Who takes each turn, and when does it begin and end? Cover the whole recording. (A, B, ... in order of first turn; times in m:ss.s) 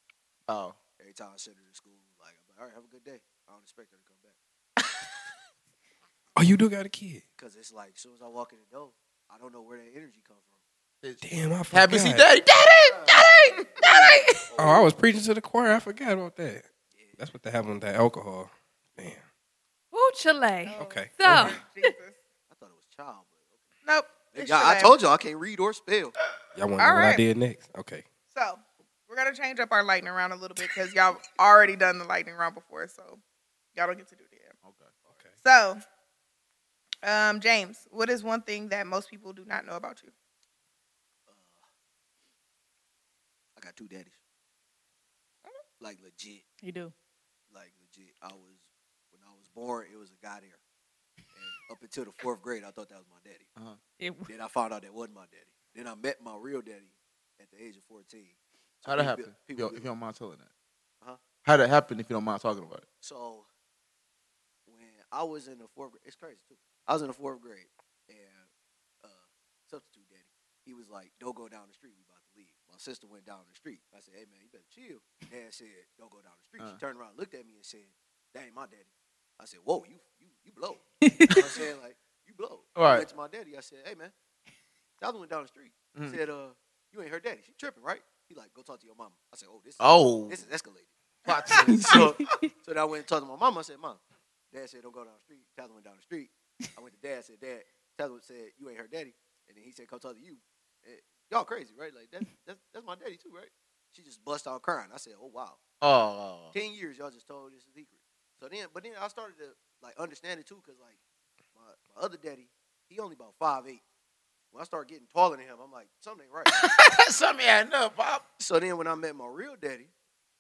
0:00.5-0:00.8 A
0:01.0-0:04.4 B
0:06.4-0:07.2 C
0:07.4-0:10.6 B
0:11.0-0:13.9 A
0:11.2-0:12.2 C
0:12.9-0:14.9 B
0:14.6-0:16.7 C
0:17.2-0:19.2 C
0:19.9-0:21.9 D
0:20.6-0:22.2 E
0:20.8-0:21.6 C
0:22.5-0:23.6 B
0:23.8-0:25.0 E
0:24.3-0:26.2 B
0:26.6-0:28.1 C
0:26.8-0:27.2 E
0:28.3-0:33.2 E
0:33.8-0:34.5 E
0:34.6-0:34.9 A
0:35.1-0:35.3 C
0:35.4-0:35.8 E
0:37.0-0:40.1 E
0:41.3-0:41.7 B
0:43.6-0:44.2 B
0:45.8-0:46.4 B
0:46.6-0:46.9 D
0:47.5-0:50.6 B
0:51.4-0:53.5 B
0:54.0-0:54.3 D
0:54.3-0:59.9 B
0:58.8-1:00.5 A
1:01.4-1:02.9 A
1:03.0-1:03.5 B
1:04.7-1:08.5 B
1:09.0-1:24.1 B
1:21.0-1:21.6 D
1:22.8-1:23.1 A
1:25.0-1:34.0 B
1:25.9-1:26.2 A
1:29.8-1:30.4 A
1:31.3-1:32.1 A
1:31.5-1:32.5 D
1:34.5-1:45.6 B
1:45.8-1:46.5 A
1:46.5-1:51.0 B
1:51.6-1:53.8 B
1:54.5-1:56.6 B
1:56.5-1:58.2 A
1:58.4-1:59.9 B